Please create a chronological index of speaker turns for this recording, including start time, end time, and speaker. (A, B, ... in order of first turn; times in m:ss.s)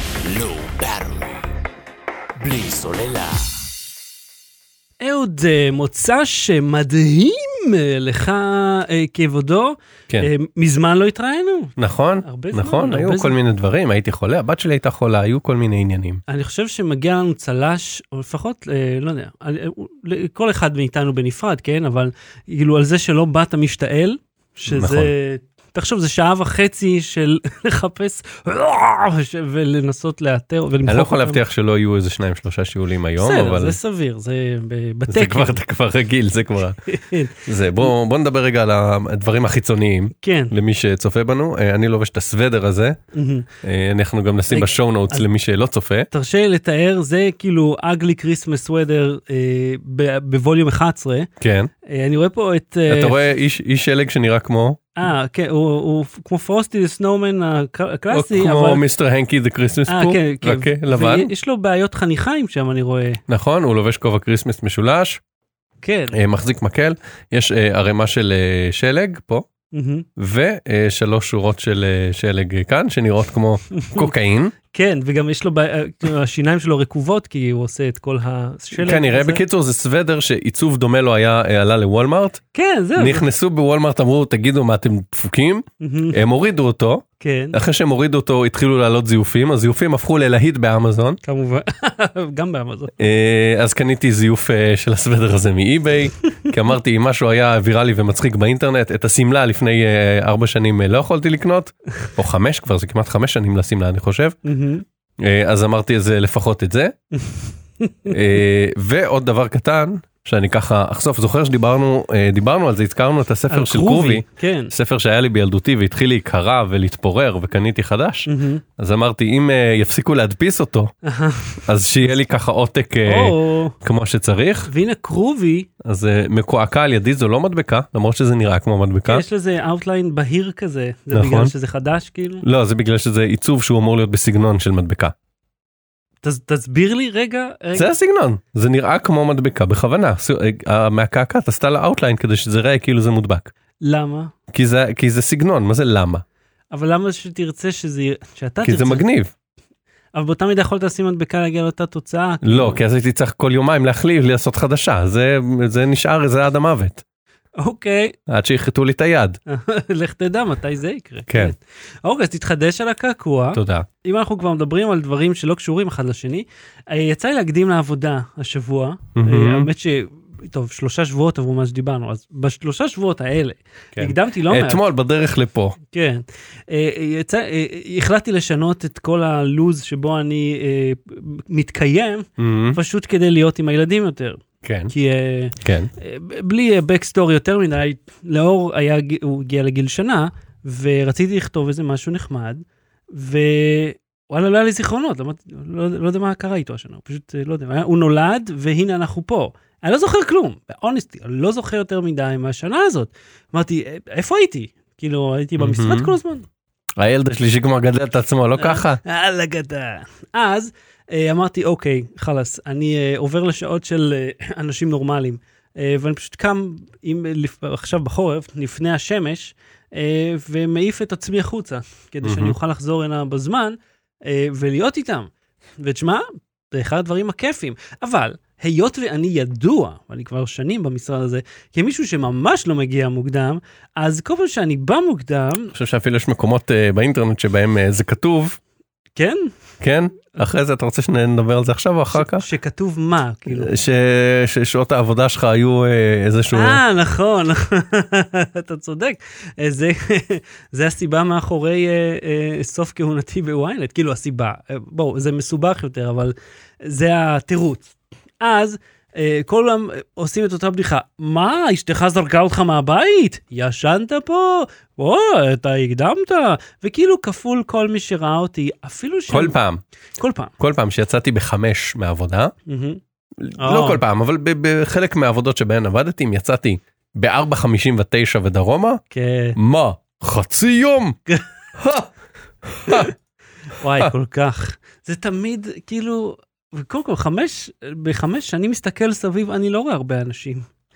0:00.2-0:01.5 A
0:02.4-0:03.6 A
0:05.0-0:13.4 B
0:11.8-0:16.2 C
0:16.3-0:31.4 B
0:24.7-0:25.1 C
0:30.9-0:33.8 C
0:33.2-0:35.6 B
0:35.1-0:36.8 C
0:36.9-0:37.4 B
0:37.4-0:43.0 C
0:40.2-0:40.6 B
0:43.1-0:43.5 B
0:43.6-0:46.1 C
0:44.5-0:45.2 B
0:46.1-0:51.3 B
0:51.4-0:51.7 C
0:51.8-0:53.2 B
0:52.9-0:54.8 C
0:55.0-0:58.8 B
0:58.1-1:01.3 C
0:59.9-1:03.2 B
1:03.3-1:05.2 C
1:05.8-1:06.2 B
1:06.1-1:09.5 C
1:09.7-1:10.1 B
1:10.2-1:14.6 C
1:13.8-1:14.1 B
1:14.7-1:19.4 B
1:18.7-1:22.4 C
1:22.5-1:23.3 B
1:23.0-1:31.2 C
1:25.8-1:26.2 B
1:27.2-1:27.6 B
1:31.2-1:32.9 B
1:33.0-1:44.4 C
1:44.4-1:44.8 B
1:45.2-1:46.9 C
1:47.1-1:48.2 B
1:48.1-2:00.9 C
1:53.5-1:54.7 B
1:58.3-1:58.6 B
2:01.0-2:01.6 B
2:01.7-2:04.7 C
2:03.1-2:03.8 B
2:04.7-2:05.7 B
2:05.8-2:09.2 C
2:09.1-2:12.4 B
2:11.1-2:11.5 C
2:12.4-2:15.1 C
2:16.2-2:17.9 B
2:17.8-2:23.5 C
2:23.8-2:24.3 B
2:24.5-2:26.2 C
2:26.7-2:29.0 B
2:28.6-2:29.3 C
2:30.1-2:32.8 B
2:32.4-2:37.0 C
2:37.6-2:38.2 B
2:38.3-2:39.4 C
2:39.5-2:54.8 B
2:41.3-2:41.5 C
2:43.5-2:43.9 C
2:49.2-2:49.7 C
2:54.0-2:55.8 C
2:55.9-3:26.5 B
3:02.4-3:02.8 C
3:04.6-3:04.9 C
3:05.6-3:05.9 C
3:25.6-3:26.2 C
3:27.0-3:29.0 C
3:28.6-3:55.7 B
3:42.2-3:42.6 C
3:55.7-3:58.6 C
3:59.2-3:59.5 B
3:59.8-4:02.4 C
4:02.1-4:03.7 B
4:03.5-4:06.8 C
4:06.5-4:29.6 B
4:29.3-4:29.8 C
4:30.2-4:30.5 B
4:30.6-4:32.5 C
4:32.7-4:33.0 B
4:33.4-4:39.0 C
4:33.6-4:34.0 B
4:39.1-4:39.6 B
4:39.6-4:41.2 C
4:41.8-4:42.1 C
4:42.6-4:43.1 C
4:43.8-4:50.7 B